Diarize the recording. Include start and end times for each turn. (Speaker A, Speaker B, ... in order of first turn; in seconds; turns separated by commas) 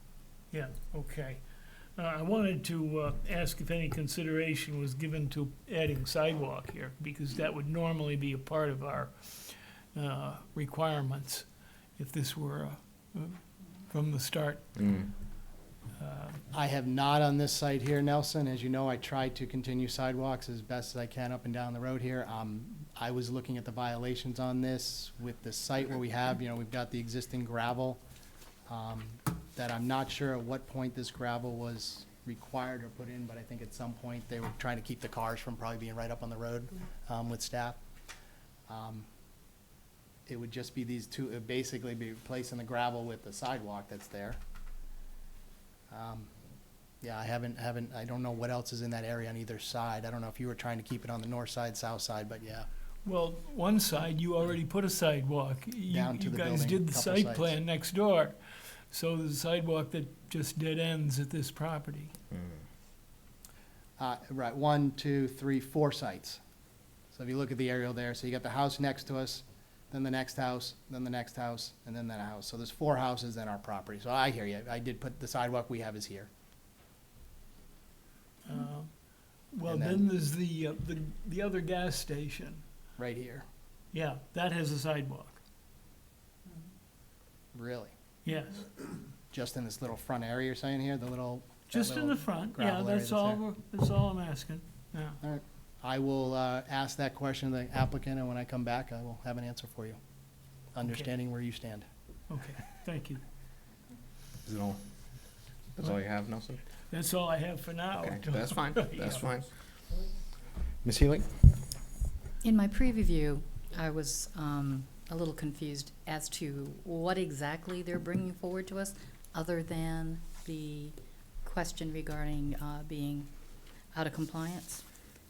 Speaker A: 0.5-1.4, Speaker A: 1.9-11.5, Speaker A: 12.0-14.6, Speaker B: 14.7-15.1, Speaker A: 16.0-16.4, Speaker C: 16.5-28.0, Speaker C: 28.7-37.8, Speaker C: 38.7-39.1, Speaker C: 40.2-44.4, Speaker C: 45.9-46.3, Speaker C: 47.0-52.7, Speaker A: 53.0-62.1, Speaker C: 55.9-57.5, Speaker B: 62.3-62.6, Speaker C: 64.0-66.4, Speaker C: 67.1-76.3, Speaker A: 78.4-82.6, Speaker C: 79.6-80.0, Speaker C: 83.0-83.4, Speaker A: 83.9-85.4, Speaker C: 87.5-87.9, Speaker A: 88.2-88.7, Speaker C: 89.3-93.4, Speaker A: 91.7-95.2, Speaker C: 95.2-100.0, Speaker C: 100.7-101.8, Speaker A: 102.3-103.2, Speaker B: 104.4-104.8, Speaker B: 105.8-106.6, Speaker A: 106.9-109.2, Speaker B: 108.0-109.5, Speaker B: 110.8-111.3, Speaker D: 112.4-123.3, Speaker D: 123.9-124.8